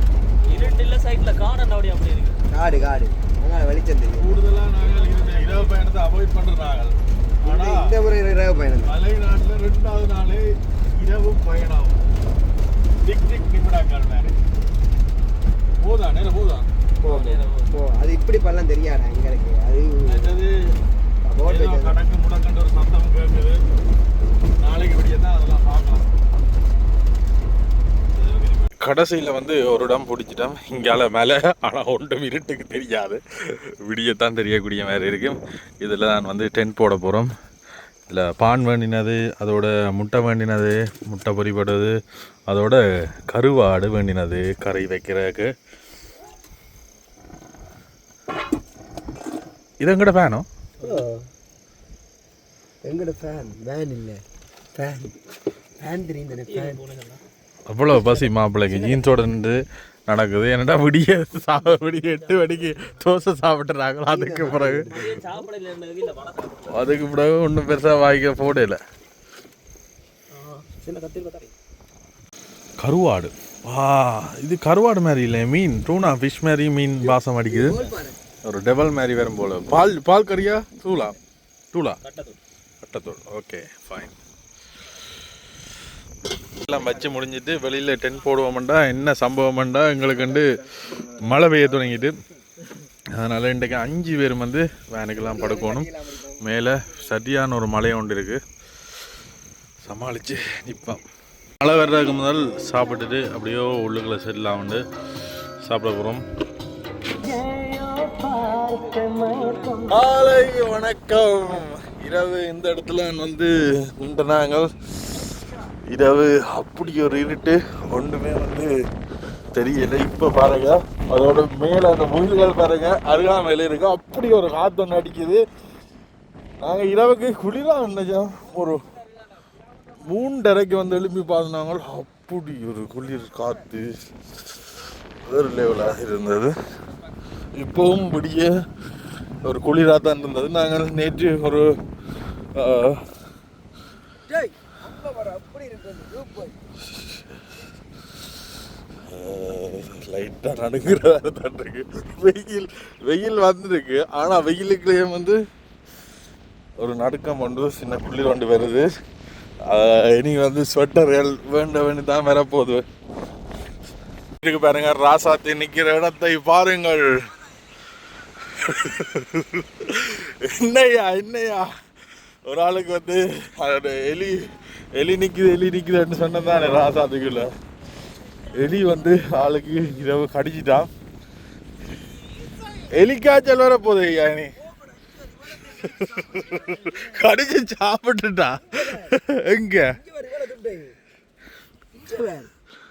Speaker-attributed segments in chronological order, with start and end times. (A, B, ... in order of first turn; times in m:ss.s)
0:00.4-0:02.4 A
0:02.5-0:04.4 B
0:04.2-0:07.9 C
0:07.4-0:08.9 B
0:08.8-0:12.0 C
0:13.0-0:14.4 C
0:15.8-0:16.6 C
0:17.0-0:20.4 B
0:17.0-0:17.7 A
0:20.0-0:20.6 C
0:21.2-0:22.0 B
0:21.4-0:23.6 C
0:24.6-0:26.1 C
0:28.6-0:37.3 C
0:38.1-0:41.9 C
0:42.5-0:45.5 C
0:49.8-0:50.5 C
0:50.8-0:51.3 B
0:52.8-0:54.2 B
0:54.7-0:55.2 B
0:55.8-0:56.8 B
0:56.4-0:57.2 A
0:57.7-1:05.1 C
0:58.7-0:59.0 B
1:04.1-1:05.2 B
1:04.9-1:06.8 A
1:06.7-1:08.8 C
1:12.8-1:17.8 C
1:17.1-1:18.2 B
1:18.4-1:21.2 C
1:21.7-1:22.0 C
1:22.0-1:22.4 A
1:22.8-1:24.1 C
1:26.6-1:30.5 C
1:30.2-1:31.3 B
1:31.1-1:32.1 C
1:33.1-1:35.9 C
1:35.2-1:36.4 B
1:36.4-1:38.4 C
1:39.8-1:41.0 C
1:41.6-1:44.8 C
1:45.6-1:46.2 C
1:47.2-1:49.9 B
1:49.8-1:55.3 C
1:55.9-1:58.7 C
1:59.5-2:05.4 C
2:06.6-2:08.8 C
2:10.0-2:13.9 C
2:15.2-2:16.5 C
2:17.6-2:18.5 C
2:19.4-2:21.7 C
2:22.5-2:23.0 C
2:24.3-2:26.6 B
2:26.9-2:27.4 C
2:29.1-2:35.4 C
2:36.8-2:38.9 C
2:39.6-2:42.8 C
2:44.4-2:47.1 C
2:48.5-2:51.7 C
2:52.5-2:57.5 C
2:58.5-3:00.9 C
3:02.9-3:04.5 C
3:05.0-3:07.1 B
3:05.6-3:10.0 C
3:08.7-3:09.1 B
3:09.9-3:11.0 B
3:11.9-3:12.5 B